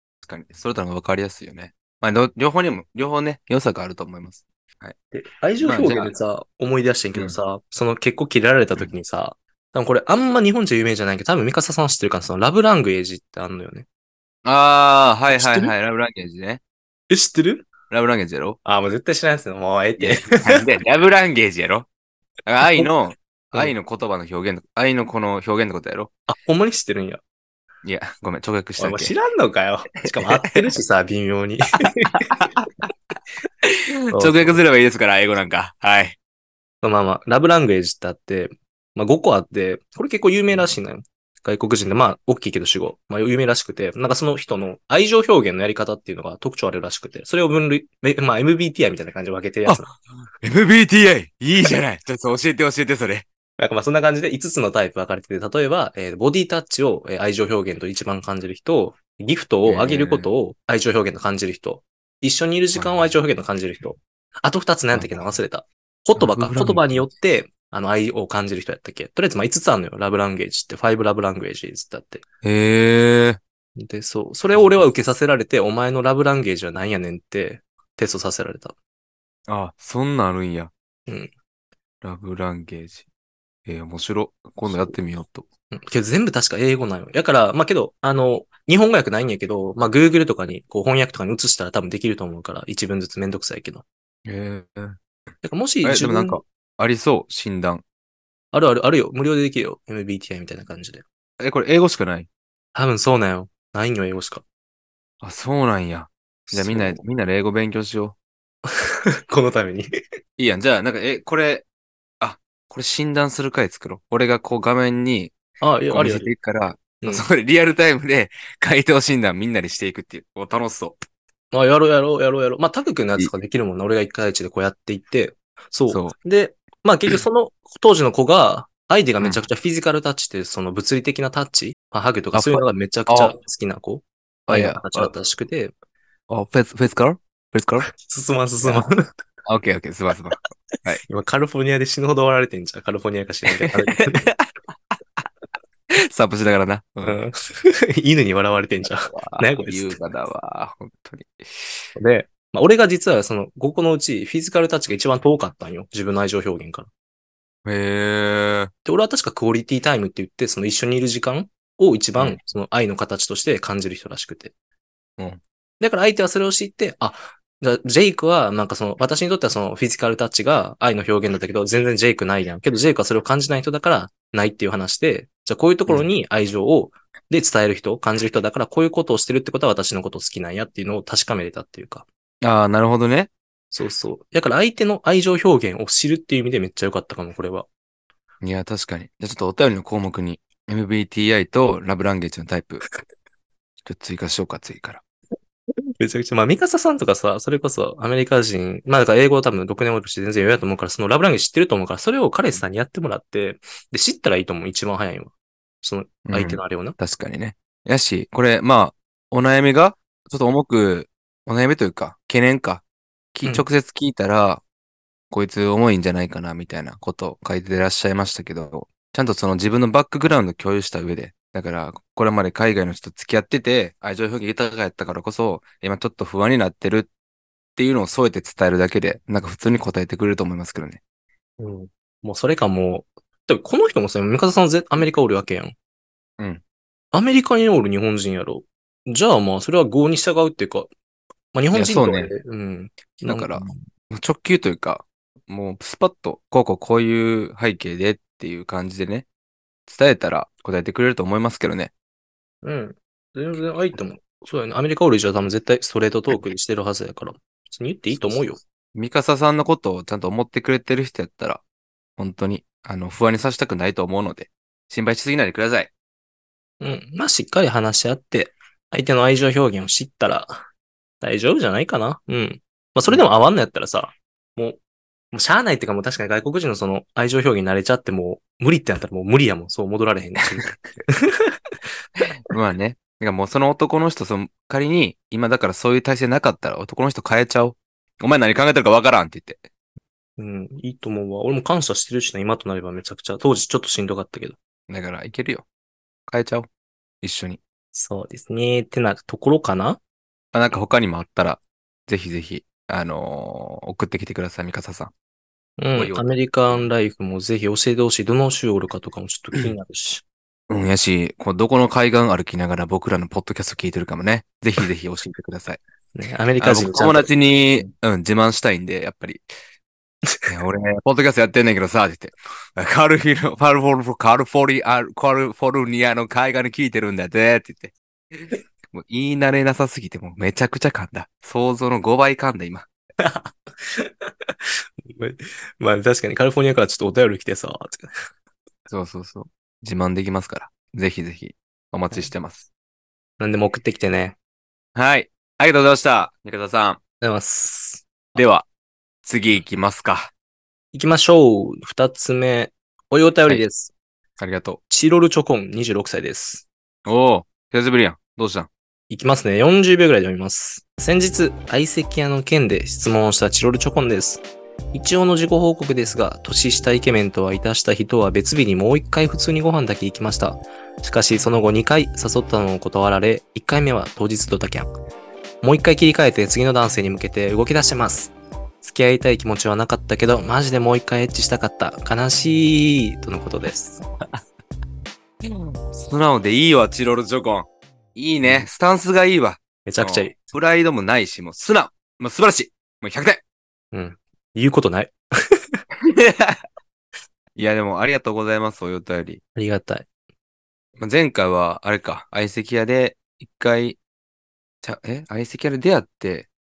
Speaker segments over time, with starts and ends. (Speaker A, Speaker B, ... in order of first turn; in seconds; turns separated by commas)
Speaker A: 0.2-4.9, Speaker B: 5.1-13.8, Speaker A: 5.6-6.1, Speaker A: 14.4-16.6, Speaker B: 15.3-15.7, Speaker B: 17.1-17.7, Speaker A: 17.9-18.6, Speaker B: 18.6-20.6, Speaker A: 20.0-21.9, Speaker A: 22.4-26.1, Speaker B: 26.3-27.2, Speaker A: 27.8-29.1, Speaker B: 28.8-32.4, Speaker A: 30.2-30.4, Speaker A: 32.1-32.7, Speaker A: 33.6-36.1, Speaker B: 34.1-34.6, Speaker B: 36.8-49.9, Speaker A: 49.6-53.2, Speaker B: 53.6-72.2, Speaker A: 59.6-60.3, Speaker A: 62.7-63.1, Speaker A: 64.9-65.3, Speaker A: 66.1-67.0, Speaker A: 72.4-73.4, Speaker B: 73.8-78.8, Speaker A: 74.5-74.9, Speaker A: 79.5-80.7, Speaker A: 82.0-83.0, Speaker A: 83.7-85.5, Speaker B: 84.7-84.9, Speaker B: 85.7-93.8, Speaker A: 94.2-95.0, Speaker B: 95.4-96.4, Speaker A: 95.8-97.8, Speaker B: 98.5-101.0, Speaker A: 101.4-102.3, Speaker B: 102.7-104.4, Speaker A: 105.2-108.1, Speaker B: 106.5-107.0, Speaker B: 108.7-109.9, Speaker A: 110.4-111.6, Speaker A: 112.2-115.3, Speaker B: 115.6-116.3, Speaker A: 115.9-121.0, Speaker B: 121.5-135.7, Speaker A: 125.9-126.1, Speaker A: 132.3-133.3, Speaker A: 134.5-135.1, Speaker A: 136.3-137.9, Speaker B: 137.9-139.0, Speaker A: 138.6-138.9, Speaker A: 139.4-141.0, Speaker B: 141.1-144.3, Speaker A: 143.5-144.5, Speaker A: 146.0-147.2, Speaker B: 147.0-150.0, Speaker A: 148.8-151.9, Speaker B: 151.9-156.9, Speaker A: 157.6-158.7, Speaker B: 158.8-164.5, Speaker B: 165.8-182.1, Speaker A: 182.4-183.3, Speaker B: 183.7-187.7, Speaker A: 188.4-192.8, Speaker A: 193.8-195.0, Speaker B: 196.0-206.9, Speaker A: 206.2-214.6, Speaker A: 215.3-227.1, Speaker A: 227.8-231.0, Speaker B: 231.6-235.7, Speaker B: 237.1-240.9, Speaker B: 241.5-243.8, Speaker A: 241.7-242.3, Speaker A: 243.2-249.2, Speaker A: 249.9-251.9, Speaker B: 252.6-258.6, Speaker A: 258.1-258.4, Speaker A: 258.9-261.6, Speaker A: 262.2-265.9, Speaker B: 266.8-270.6, Speaker B: 271.2-274.8, Speaker B: 275.3-281.6, Speaker A: 282.5-289.6, Speaker B: 290.4-294.6, Speaker A: 294.9-295.6, Speaker A: 296.3-296.7, Speaker A: 297.2-297.6, Speaker B: 297.9-300.0, Speaker A: 300.5-305.1, Speaker B: 305.8-310.2, Speaker A: 305.9-306.9, Speaker A: 310.7-315.8, Speaker B: 316.1-317.3, Speaker A: 316.6-319.5, Speaker A: 320.5-332.9, Speaker B: 333.2-334.5, Speaker B: 335.1-338.1, Speaker A: 338.9-342.7, Speaker B: 343.4-344.4, Speaker A: 344.9-347.0, Speaker B: 347.2-348.4, Speaker A: 348.3-348.6, Speaker A: 349.2-350.3, Speaker B: 350.9-353.9, Speaker A: 354.4-354.8, Speaker B: 354.9-356.6, Speaker A: 357.1-358.7, Speaker B: 359.1-374.9, Speaker B: 375.6-384.0, Speaker A: 385.4-393.4, Speaker B: 388.4-388.7, Speaker B: 389.9-390.3, Speaker B: 393.9-395.1, Speaker A: 396.0-396.6, Speaker A: 397.6-399.4, Speaker B: 399.6-400.1, Speaker A: 401.0-404.0, Speaker A: 404.8-406.5